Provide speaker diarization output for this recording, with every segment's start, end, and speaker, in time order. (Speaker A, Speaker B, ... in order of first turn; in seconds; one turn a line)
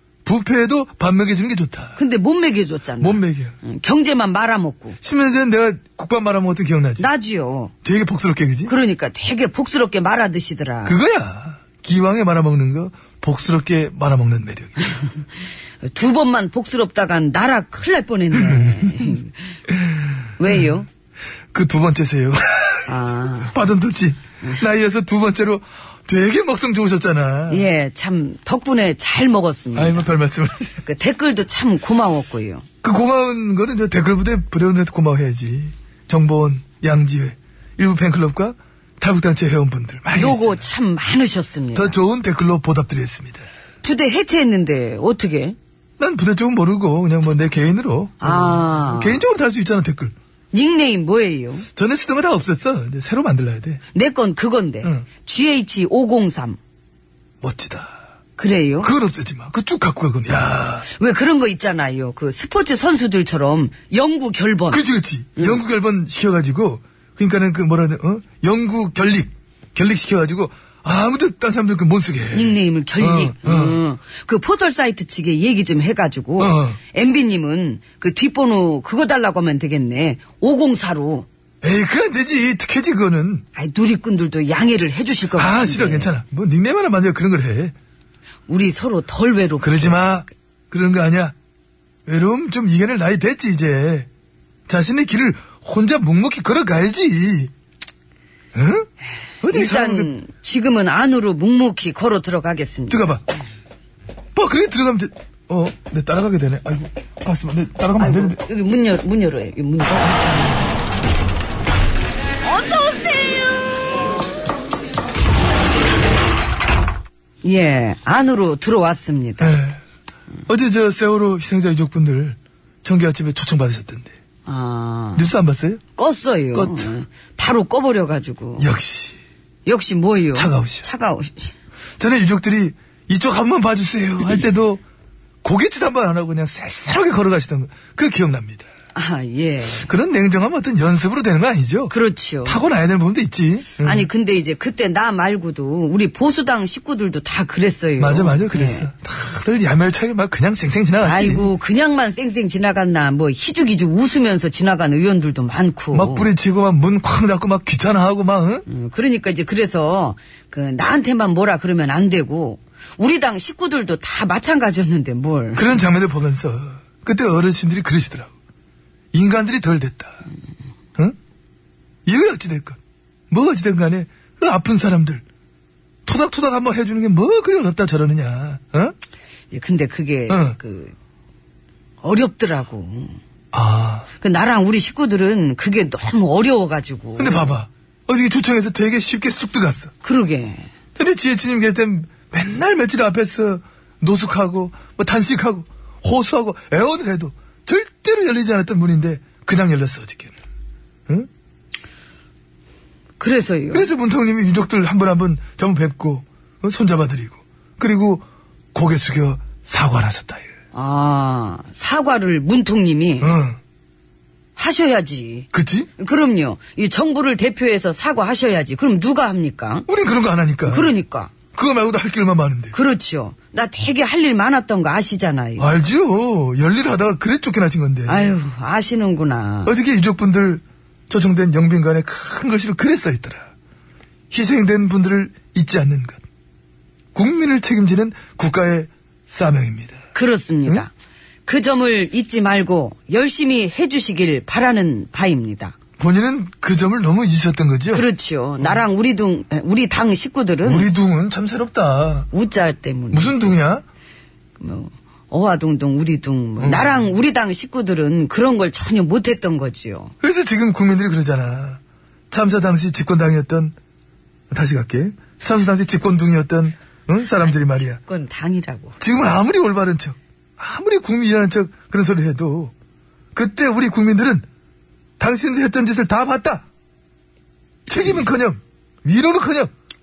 Speaker A: 0.2-2.0
Speaker B: 2.0-5.0
Speaker A: 3.0-3.5
Speaker A: 5.0-7.1
Speaker B: 7.0-7.7
Speaker A: 7.8-8.7
Speaker B: 8.7-11.0
Speaker A: 10.8-14.8
Speaker B: 14.8-15.2
Speaker B: 15.8-19.4
Speaker A: 18.3-19.1
Speaker B: 20.4-20.9
Speaker A: 21.5-22.9
Speaker B: 22.9-23.6
Speaker A: 23.5-27.7
Speaker B: 27.5-30.1
Speaker A: 29.7-30.8
Speaker B: 30.9-32.7
Speaker A: 32.8-40.6
Speaker B: 40.1-42.0
Speaker A: 41.7-43.5
Speaker B: 43.8-45.6
Speaker A: 46.0-50.1
Speaker B: 48.2-49.2
Speaker B: 50.5-51.7
Speaker A: 51.8-53.8
Speaker B: 53.9-56.6
Speaker A: 57.4-58.0
Speaker B: 58.4-58.9
Speaker A: 58.8-60.9
Speaker B: 60.9-64.8
Speaker A: 64.7-73.8
Speaker B: 72.3-81.3
Speaker A: 76.4-76.8
Speaker A: 81.6-83.4
Speaker B: 83.5-86.1
Speaker A: 85.4-87.7
Speaker B: 88.5-90.2
Speaker A: 89.6-91.3
Speaker A: 92.1-94.1
Speaker A: 94.7-97.5
Speaker A: 98.5-98.9
Speaker A: 99.4-100.1
Speaker B: 99.5-103.1
Speaker A: 102.9-103.2
Speaker A: 104.3-108.4
Speaker B: 108.0-110.7
Speaker B: 112.4-113.6
Speaker B: 117.4-119.6
Speaker A: 119.4-119.8
Speaker A: 120.5-124.1
Speaker B: 124.5-125.3
Speaker A: 125.2-125.8
Speaker B: 126.0-128.7
Speaker A: 126.5-126.9
Speaker A: 128.6-129.2
Speaker B: 129.7-131.5
Speaker A: 130.3-130.9
Speaker A: 132.0-134.8
Speaker A: 135.4-138.7
Speaker B: 138.9-139.9
Speaker A: 139.8-141.9
Speaker B: 141.9-142.6
Speaker A: 142.4-144.1
Speaker B: 143.8-148.9
Speaker A: 148.0-151.5
Speaker B: 151.0-156.3
Speaker A: 155.9-158.7
Speaker B: 158.7-165.8
Speaker A: 165.6-168.3
Speaker A: 169.1-170.2
Speaker A: 172.1-172.8
Speaker A: 173.3-175.2
Speaker A: 176.1-178.9
Speaker B: 179.5-180.9
Speaker A: 180.3-180.6
Speaker B: 182.0-183.2
Speaker A: 183.5-184.1
Speaker B: 184.2-187.5
Speaker A: 187.2-189.9
Speaker B: 190.0-190.7
Speaker A: 191.0-200.3
Speaker B: 203.2-203.9
Speaker A: 203.7-210.5
Speaker B: 210.7-213.4
Speaker A: 213.2-213.6
Speaker B: 214.6-219.9
Speaker A: 215.5-215.9
Speaker A: 219.9-220.9
Speaker B: 220.7-221.3
Speaker A: 221.5-222.8
Speaker B: 222.7-225.8
Speaker A: 225.6-228.3
Speaker B: 228.1-229.8
Speaker A: 229.7-233.5
Speaker A: 234.3-236.2
Speaker A: 237.2-240.0
Speaker B: 240.1-240.9
Speaker B: 241.5-245.8
Speaker A: 246.0-248.1
Speaker B: 247.9-250.9
Speaker A: 250.6-252.3
Speaker B: 252.3-253.6
Speaker A: 253.1-253.8
Speaker B: 254.6-260.1
Speaker A: 256.6-257.0
Speaker A: 260.2-263.8
Speaker A: 264.5-268.0
Speaker B: 267.9-269.0
Speaker A: 269.0-272.7
Speaker A: 273.3-274.4
Speaker A: 275.2-276.7
Speaker A: 277.9-279.7